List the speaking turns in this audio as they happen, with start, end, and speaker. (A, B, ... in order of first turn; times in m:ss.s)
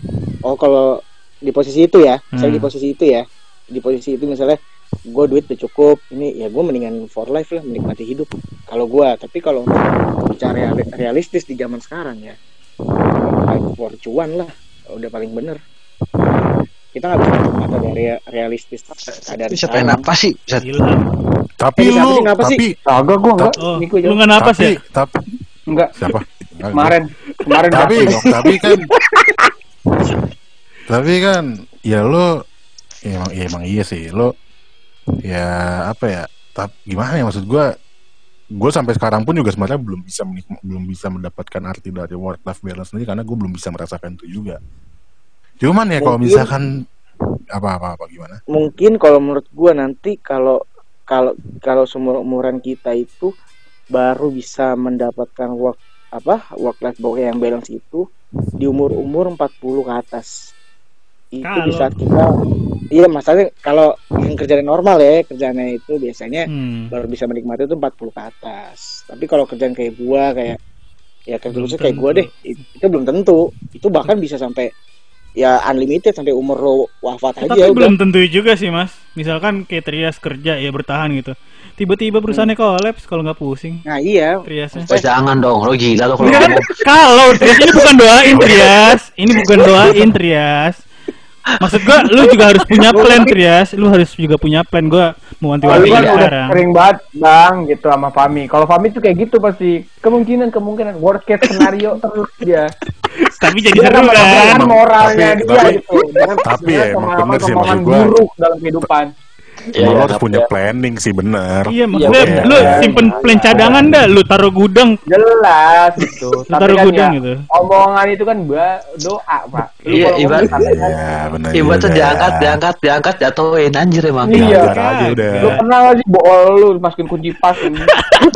0:00.4-0:00.8 A
0:01.5-0:04.6 A
0:02.4-0:02.7 B
0:05.1-0:12.4 A
0:13.1-0:15.6 A
0:17.0-0:20.0 A
0:19.5-0:20.6 C
0:20.6-0:21.1 B
0:21.6-0:22.7 D
0:21.8-0:22.6 A
0:22.9-0:24.2 E
0:23.6-0:24.7 B
0:24.4-0:25.2 D
0:26.0-0:27.0 D
0:26.7-0:28.1 E
0:27.7-0:28.8 D
0:28.3-0:28.7 A
0:30.9-0:32.3 D
0:33.1-0:34.3 D
0:35.3-0:37.7 D
0:38.6-0:44.6 D
0:45.6-0:46.7 D
0:46.0-0:46.5 A
0:47.6-0:48.4 D
0:48.5-0:50.6 A
0:51.1-0:53.3 A
0:53.9-0:58.0 A
0:58.6-1:00.3 A
1:01.3-1:02.4 A
1:01.4-1:01.9 B
1:02.9-1:10.6 A
1:06.5-1:06.9 B
1:11.3-1:14.7 A
1:11.5-1:12.3 B
1:15.4-1:17.9 A
1:17.4-1:23.8 B
1:23.9-1:25.1 A
1:24.4-1:24.9 B
1:24.9-1:26.7 C
1:26.2-1:30.8 B
1:26.2-1:26.5 A
1:31.6-1:36.6 B
1:32.9-1:33.3 A
1:35.7-1:42.7 E
1:35.8-1:36.2 C
1:43.3-1:44.6 B
1:43.7-1:49.1 E
1:44.2-1:45.8 D
1:45.6-1:46.2 A
1:46.5-1:48.1 D
1:49.7-1:50.5 C
1:49.8-1:52.9 D
1:51.7-1:54.9 B
1:52.0-1:53.8 C
1:52.7-1:53.8 E
1:55.1-2:00.9 E
1:56.5-1:57.3 B
1:59.9-2:00.5 C
2:00.4-2:02.6 D
2:01.6-2:04.4 C
2:04.2-2:04.7 E
2:04.3-2:05.6 D
2:04.4-2:05.6 B
2:05.4-2:08.0 E